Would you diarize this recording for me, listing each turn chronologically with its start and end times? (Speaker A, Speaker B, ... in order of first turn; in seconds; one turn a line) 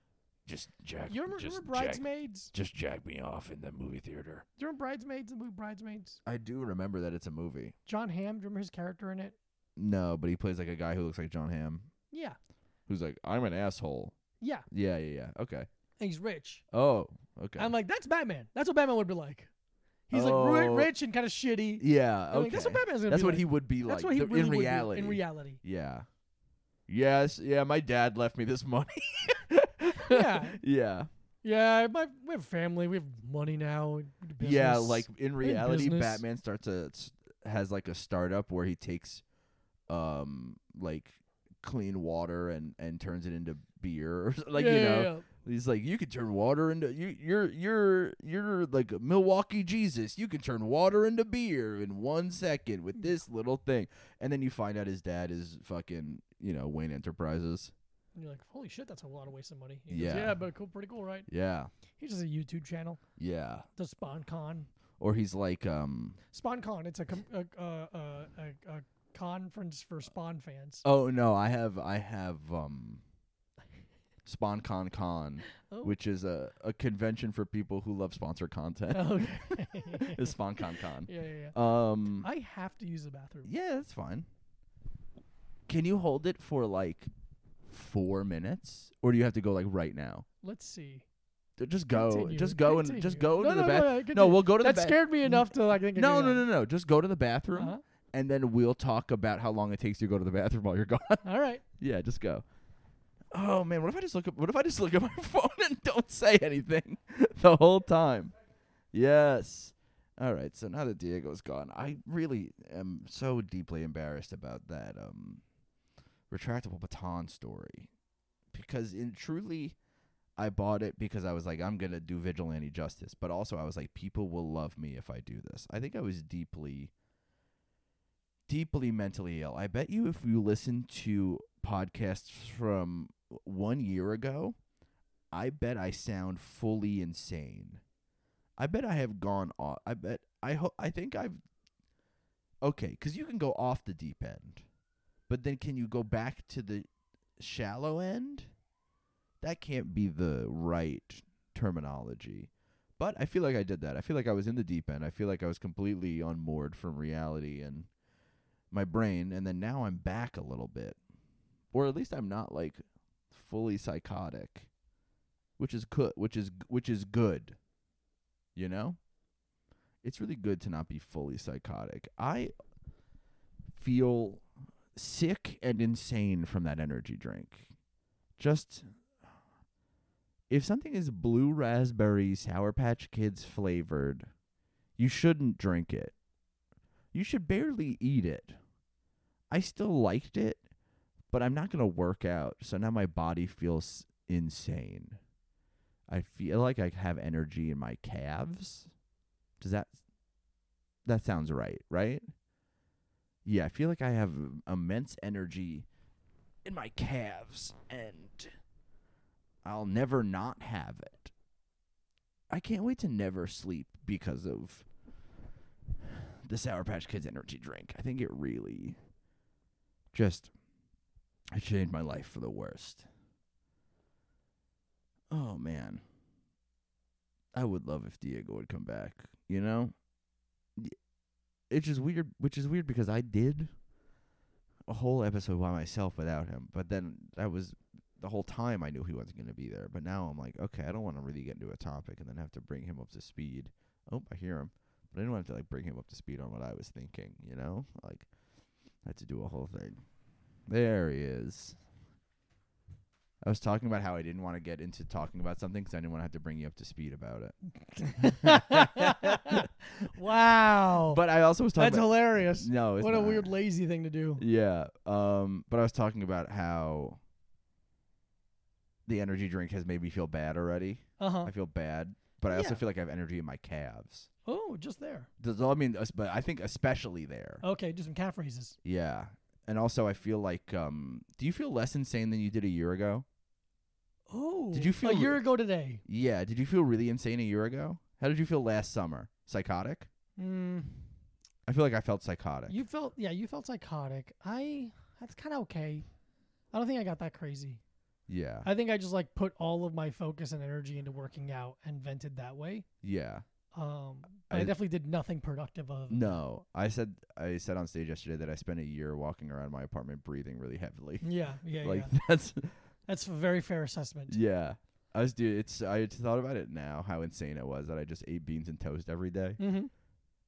Speaker A: 0.5-4.4
Speaker B: 1.1-2.5
Speaker B: 4.6-6.2
Speaker A: 6.2-7.7
Speaker B: 7.8-9.3
Speaker A: 9.8-11.9
Speaker B: 12.1-12.4
Speaker A: 12.9-14.1
Speaker B: 14.4-14.7
Speaker A: 14.7-15.7
Speaker B: 16.0-16.6
Speaker A: 16.7-17.7
Speaker B: 17.6-19.5
Speaker B: 20.1-25.6
Speaker A: 20.1-20.9
Speaker A: 21.8-26.1
Speaker A: 26.9-31.1
Speaker B: 29.9-30.6
Speaker B: 31.4-36.2
Speaker A: 34.4-39.2
Speaker A: 39.9-57.7
Speaker B: 44.5-45.2
Speaker B: 58.1-61.3
Speaker A: 59.9-60.4
Speaker A: 61.3-61.7
Speaker B: 61.9-63.0
Speaker A: 63.2-63.7
Speaker B: 63.8-64.7
Speaker A: 65.0-66.2
Speaker B: 66.3-70.8
Speaker A: 70.8-73.0
Speaker A: 74.2-82.3
Speaker B: 75.6-76.0
Speaker B: 78.9-81.5
Speaker B: 82.2-83.5
Speaker A: 83.4-84.3
Speaker A: 85.7-87.1
Speaker A: 87.7-90.2
Speaker B: 90.4-91.0
Speaker A: 91.6-101.2
Speaker B: 91.9-96.4
Speaker B: 97.5-97.8
Speaker B: 101.2-101.6
Speaker A: 101.8-102.4
Speaker A: 103.3-108.3
Speaker A: 108.9-115.4
Speaker A: 116.3-117.9
Speaker A: 118.5-119.8
Speaker A: 120.4-126.9
Speaker A: 128.5-134.6
Speaker A: 135.3-137.8
Speaker A: 138.6-141.4
Speaker A: 142.6-144.6
Speaker A: 145.3-146.9
Speaker A: 147.4-148.5
Speaker A: 149.4-157.9
Speaker A: 158.7-161.0
Speaker A: 161.7-164.7
Speaker A: 165.6-167.6
Speaker A: 168.6-169.0
Speaker A: 170.0-172.5
Speaker A: 173.8-177.7
Speaker A: 178.4-178.8
Speaker A: 180.5-184.3
Speaker A: 185.0-186.1
Speaker A: 187.1-188.6
Speaker A: 189.5-190.6
Speaker A: 191.3-195.2
Speaker A: 196.1-198.9
Speaker A: 199.6-200.0
Speaker A: 201.1-202.2
Speaker A: 203.4-205.9
Speaker A: 206.6-208.5
Speaker A: 209.6-211.3
Speaker A: 212.5-214.8
Speaker A: 216.0-219.0
Speaker A: 220.1-220.5
Speaker A: 221.5-223.1
Speaker A: 225.3-226.0
Speaker A: 227.5-229.9
Speaker A: 231.7-233.7
Speaker A: 234.9-248.3
Speaker A: 249.0-250.0
Speaker A: 250.7-251.8
Speaker A: 253.4-257.5
Speaker B: 257.9-261.2
Speaker A: 258.1-259.7
Speaker A: 261.0-263.6
Speaker B: 261.8-264.4
Speaker A: 264.4-267.2
Speaker A: 269.1-274.3
Speaker B: 271.2-271.5
Speaker B: 272.5-272.8
Speaker B: 274.4-275.3
Speaker A: 275.4-277.6
Speaker B: 277.6-278.8
Speaker A: 278.8-283.2
Speaker B: 284.3-286.0
Speaker A: 284.7-285.4
Speaker A: 286.0-290.1
Speaker B: 290.4-291.1
Speaker A: 291.7-292.8
Speaker B: 292.7-296.0
Speaker B: 296.7-297.8
Speaker A: 298.3-298.7
Speaker B: 298.6-302.9
Speaker A: 303.0-303.4
Speaker B: 303.7-306.4
Speaker A: 304.5-304.7
Speaker A: 306.1-311.3
Speaker B: 311.2-312.1
Speaker A: 311.8-312.7
Speaker B: 313.1-314.4
Speaker A: 314.3-319.6
Speaker B: 319.6-319.9